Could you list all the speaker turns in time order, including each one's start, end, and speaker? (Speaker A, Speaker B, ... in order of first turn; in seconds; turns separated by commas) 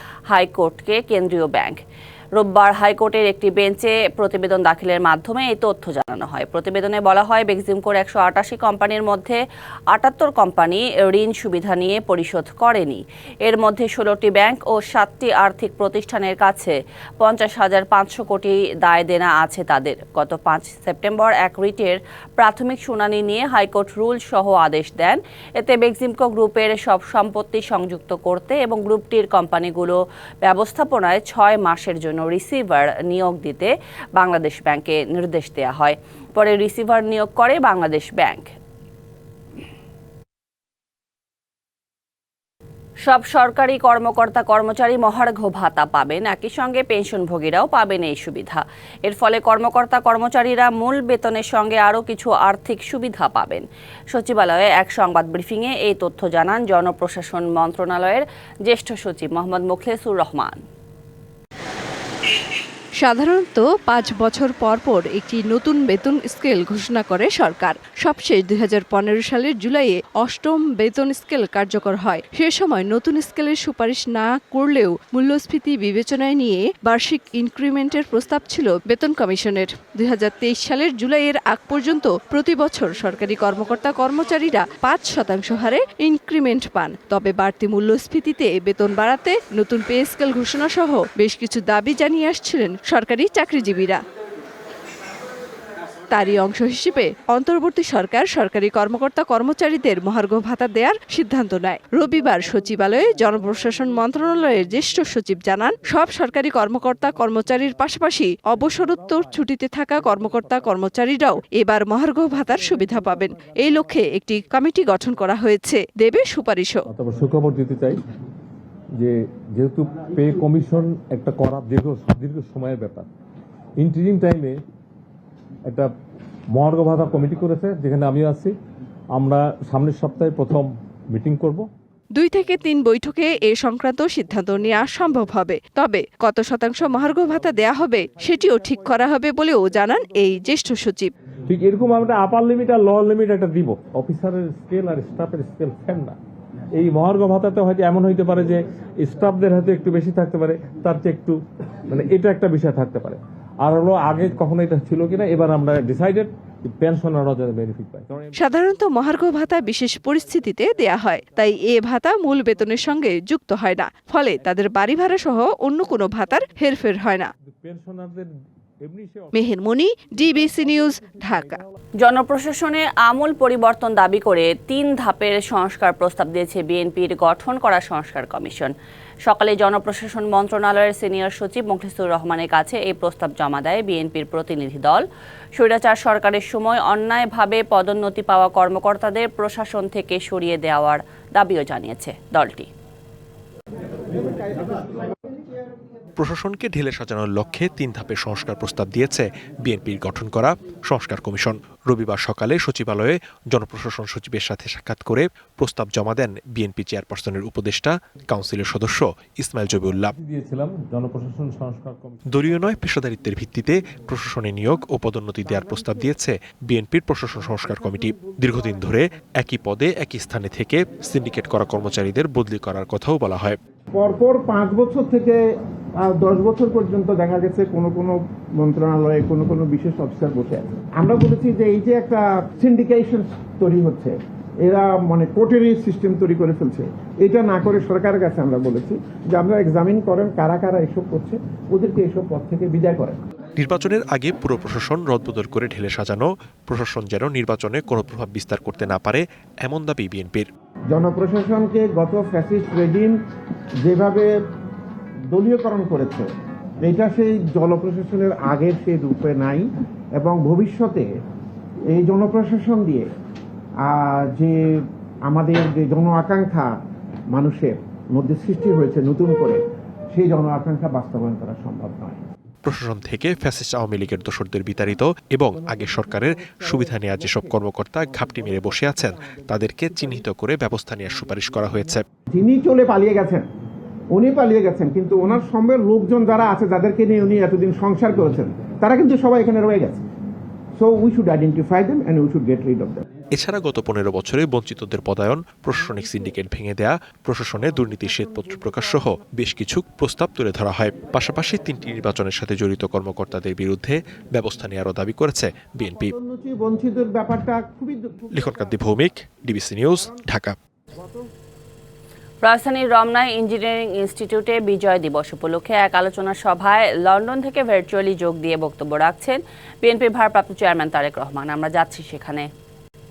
Speaker A: 0.3-1.8, Speaker A: 2.4-9.4, Speaker A: 9.9-38.5, Speaker A: 43.0-60.6, Speaker B: 63.0-94.0, Speaker B: 96.1-116.8, Speaker C: 116.9-118.0, Speaker C: 119.0-123.1, Speaker C: 123.8-124.6, Speaker C: 126.5-128.6, Speaker C: 129.2-131.7, Speaker B: 132.2-141.1, Speaker C: 141.5-146.2, Speaker C: 146.8-158.3, Speaker B: 158.3-167.3, Speaker C: 167.6-168.3, Speaker C: 168.8-169.3, Speaker B: 169.3-171.6, Speaker C: 170.4-171.1, Speaker A: 172.0-178.7, Speaker A: 179.2-185.1, Speaker A: 185.6-192.7, Speaker D: 194.6-194.9, Speaker E: 196.2-210.1, Speaker C: 210.2-212.2, Speaker E: 212.3-223.6, Speaker D: 224.0-225.4, Speaker D: 226.0-243.2, Speaker E: 243.6-250.5, Speaker D: 250.9-253.2, Speaker D: 253.8-254.3, Speaker D: 255.3-256.3, Speaker D: 256.8-259.7, Speaker D: 260.2-261.1, Speaker D: 261.9-263.1, Speaker D: 263.8-266.7, Speaker D: 267.3-269.6, Speaker D: 270.1-272.2, Speaker E: 272.6-282.0, Speaker D: 282.3-283.4, Speaker D: 284.1-290.0, Speaker D: 290.8-293.0, Speaker E: 293.3-306.1, Speaker D: 306.2-308.3, Speaker E: 308.3-310.5, Speaker A: 312.4-322.5